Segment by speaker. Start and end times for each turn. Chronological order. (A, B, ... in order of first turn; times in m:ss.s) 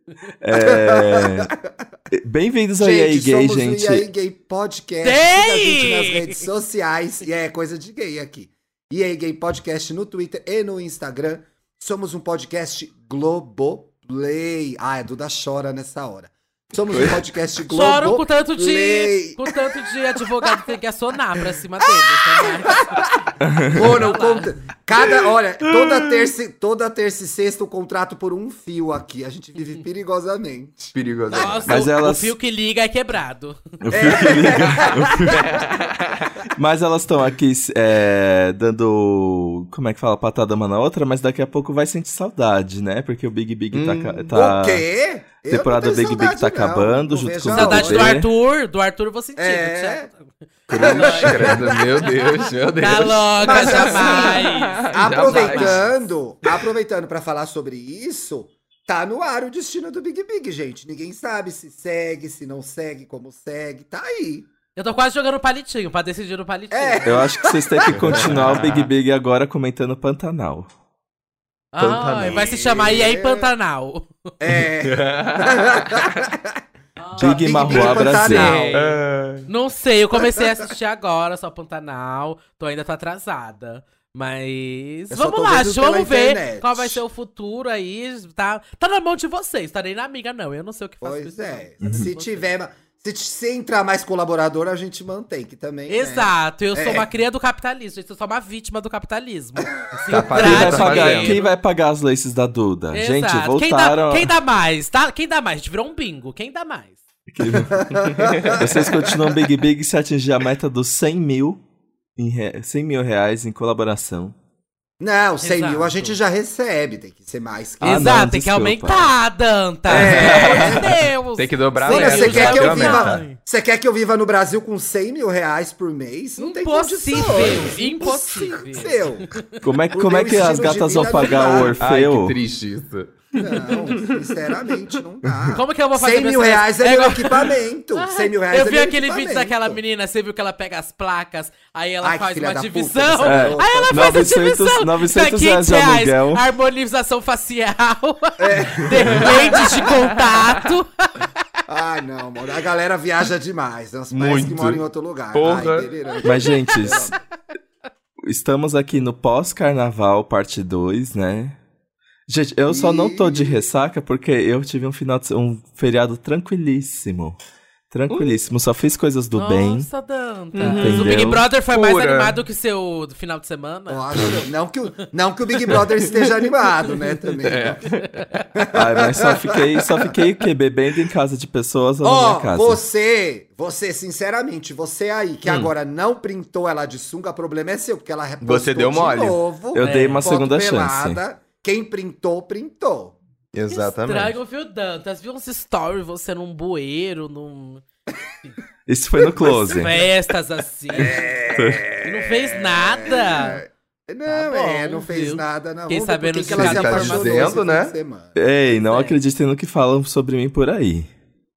0:00.4-0:01.5 A
0:00.5-0:01.8 B
0:02.1-0:04.1 A
0:02.8-0:19.8 B
0:05.0-0:06.4 C
0:16.9-0:17.2 A
0:17.7-0:23.0 C
0:22.0-0:31.6 B
0:23.4-0:24.0 A
0:23.7-0:24.5 C
0:30.9-0:31.7 D
0:31.3-0:33.6 C
0:31.7-0:32.3 A
0:33.8-0:35.6 A
0:33.9-0:35.6 B
0:35.3-0:36.5 D
0:36.5-0:44.8 A
0:43.7-0:44.3 D
0:44.3-0:48.2 B
0:45.5-0:48.3 A
0:47.5-0:51.6 C
0:49.4-0:50.1 B
0:50.7-0:55.9 D
0:50.7-0:52.1 B
0:50.8-0:51.5 A
0:52.8-0:56.0 C
0:53.4-1:04.5 B
1:04.8-1:07.2 C
1:06.7-1:08.2 B
1:07.0-1:10.7 A
1:07.9-1:08.9 D
1:11.7-1:14.1 C
1:11.8-1:12.9 D
1:12.2-1:13.5 B
1:14.4-1:16.6 B
1:14.6-1:16.2 D
1:17.0-1:32.4 C
1:17.2-1:18.6 A
1:17.2-1:18.8 B
1:17.7-1:18.0 D
1:18.7-1:19.5 D
1:25.1-1:27.0 B
1:31.0-1:37.1 B
1:31.8-1:32.1 A
1:35.9-1:41.5 C
1:40.1-1:41.4 D
1:40.3-1:44.3 A
1:42.9-1:47.0 C
1:47.3-1:51.6 A
1:47.4-1:49.3 B
1:52.2-1:54.3 A
1:55.0-1:58.1 B
1:55.4-1:56.2 C
1:57.8-2:03.4 C
1:57.8-1:59.1 A
1:59.9-2:00.9 B
1:59.9-2:00.9 A
2:01.4-2:03.2 D
2:01.8-2:09.3 B
2:06.4-2:09.5 C
2:09.6-2:12.4 A
2:09.9-2:11.8 B
2:11.8-2:14.6 D
2:13.4-2:19.8 B
2:15.5-2:31.3 C
2:22.0-2:24.2 B
2:23.2-2:26.4 A
2:28.4-2:29.6 B
2:29.0-2:29.6 D
2:31.7-2:37.2 B
2:34.1-2:35.9 D
2:36.2-2:37.1 A
2:36.3-2:36.9 C
2:38.2-2:41.6 A
2:42.3-2:47.4 A
2:42.7-2:43.6 B
2:47.9-2:49.9 A
2:48.1-2:48.4 D
2:49.3-2:54.3 C
2:50.6-2:52.4 D
2:50.6-2:51.4 A
2:53.9-2:57.8 B
2:55.7-2:56.2 D
2:57.4-2:58.2 D
2:57.9-2:58.4 C
2:58.6-2:59.8 B
2:58.7-3:02.8 A
3:02.0-3:13.2 B
3:05.4-3:05.7 D
3:08.4-3:09.4 D
3:09.7-3:11.2 A
3:09.8-3:10.3 C
3:13.5-3:14.4 D
3:13.7-3:17.8 C
3:18.9-3:20.0 A
3:19.4-3:21.3 C
3:20.9-3:28.3 B
3:21.5-3:21.8 A
3:22.0-3:23.6 C
3:24.2-3:27.6 C
3:26.5-3:27.9 D
3:28.3-3:31.1 A
3:28.8-3:29.2 C